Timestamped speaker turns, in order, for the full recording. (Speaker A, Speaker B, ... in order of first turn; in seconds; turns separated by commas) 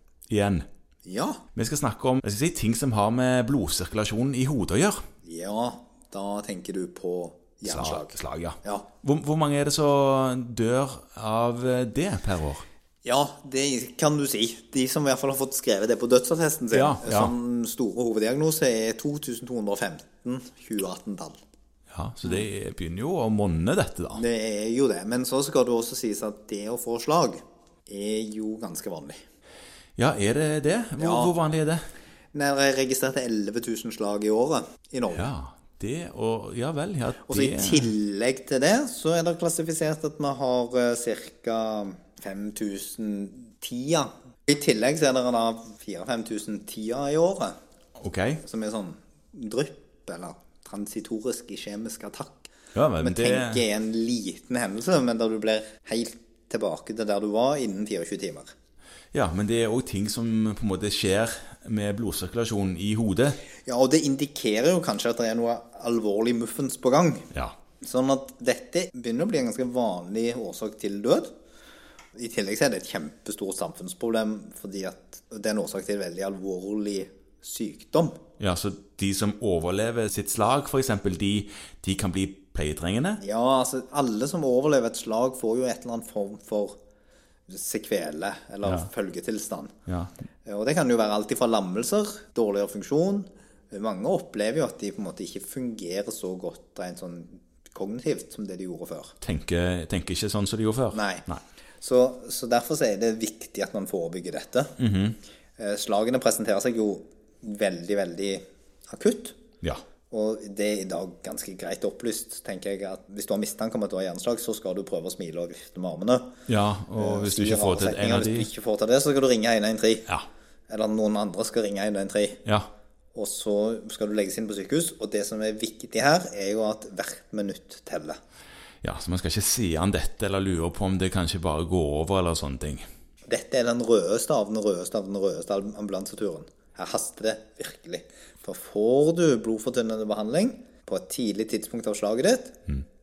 Speaker A: 0.3-0.7, Speaker B: 1.0-1.4, Speaker A: 1.5-5.0, Speaker B: 5.2-8.9, Speaker A: 7.6-12.6, Speaker B: 13.0-21.4, Speaker A: 16.7-17.3, Speaker A: 21.9-24.2, Speaker B: 24.1-29.2, Speaker A: 29.9-31.8, Speaker B: 31.0-31.3, Speaker B: 32.3-35.3, Speaker A: 35.1-37.9, Speaker B: 37.3-47.5, Speaker A: 48.0-48.4, Speaker B: 48.4-52.5, Speaker A: 52.7-53.6, Speaker B: 53.0-58.5, Speaker A: 59.1-63.4, Speaker B: 63.6-67.3, Speaker B: 67.8-71.3, Speaker B: 72.1-78.2, Speaker A: 78.4-83.2, Speaker B: 83.2-86.8, Speaker B: 87.5-89.7, Speaker B: 90.5-99.2, Speaker A: 99.2-101.4, Speaker B: 100.9-101.2, Speaker B: 101.8-104.7, Speaker A: 104.8-105.2, Speaker B: 105.6-109.4, Speaker B: 110.1-116.3, Speaker A: 116.5-118.5, Speaker B: 116.9-120.1, Speaker B: 120.7-122.4, Speaker B: 123.1-128.2, Speaker A: 128.8-132.8, Speaker B: 133.3-142.6